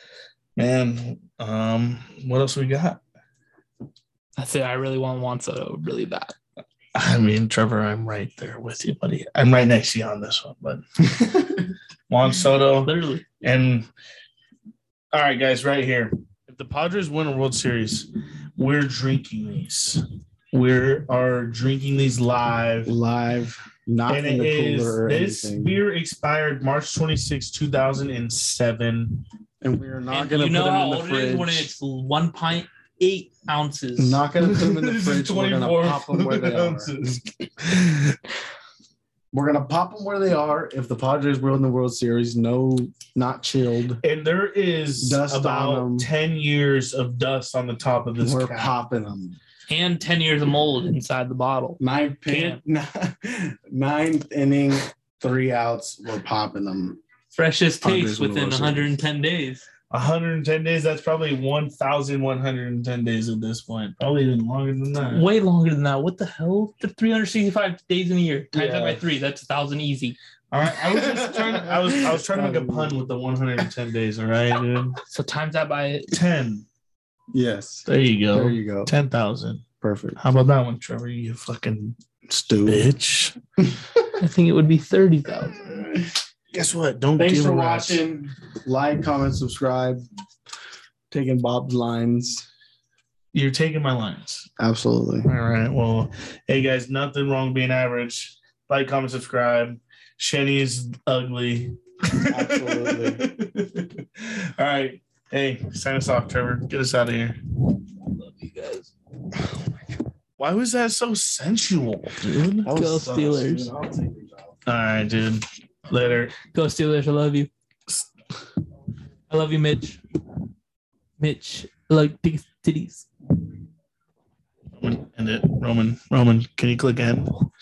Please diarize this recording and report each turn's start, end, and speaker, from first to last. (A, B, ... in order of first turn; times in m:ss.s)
0:00.6-0:03.0 A
0:04.4-0:06.3 B
0:06.9-0:11.3 A
0:12.1-0:13.9 A
0:12.8-0:13.2 B
0:15.1-0:22.9 A
0:22.8-0:25.8 C
0:24.1-0:29.2 A
0:29.6-0:31.7 C
0:30.1-0:34.2 B
0:34.0-0:37.0 C
0:34.4-0:38.2 A
0:39.3-0:44.0 C
0:44.0-0:48.7 A
0:45.0-0:46.1 C
0:48.2-0:49.4 C
0:49.7-0:52.6 B
0:51.8-0:57.0 C
0:57.3-0:59.6 B
0:57.8-0:58.9 C
0:59.9-1:05.2 A
1:05.1-1:10.2 B
1:08.5-1:09.0 A
1:10.5-1:15.0 A
1:10.9-1:13.0 C
1:15.1-1:16.2 B
1:16.1-1:16.6 A
1:17.3-1:18.9 C
1:17.8-1:19.6 A
1:19.8-1:20.2 C
1:20.2-1:22.0 A
1:22.3-1:22.9 C
1:22.6-1:23.4 A
1:24.2-1:25.7 B
1:25.6-1:26.1 C
1:26.5-1:28.0 A
1:27.2-1:30.0 C
1:31.1-1:32.4 C
1:33.3-1:34.5 A
1:34.6-1:35.3 C
1:35.2-1:47.4 A
1:42.3-1:43.2 C
1:48.0-1:48.9 B
1:50.4-1:52.7 A
1:52.6-1:54.6 C
1:52.6-1:53.7 B
1:54.6-1:56.3 A
1:56.4-1:57.5 B
1:59.3-2:00.0 B
2:01.2-2:03.1 B
2:04.8-2:07.3 A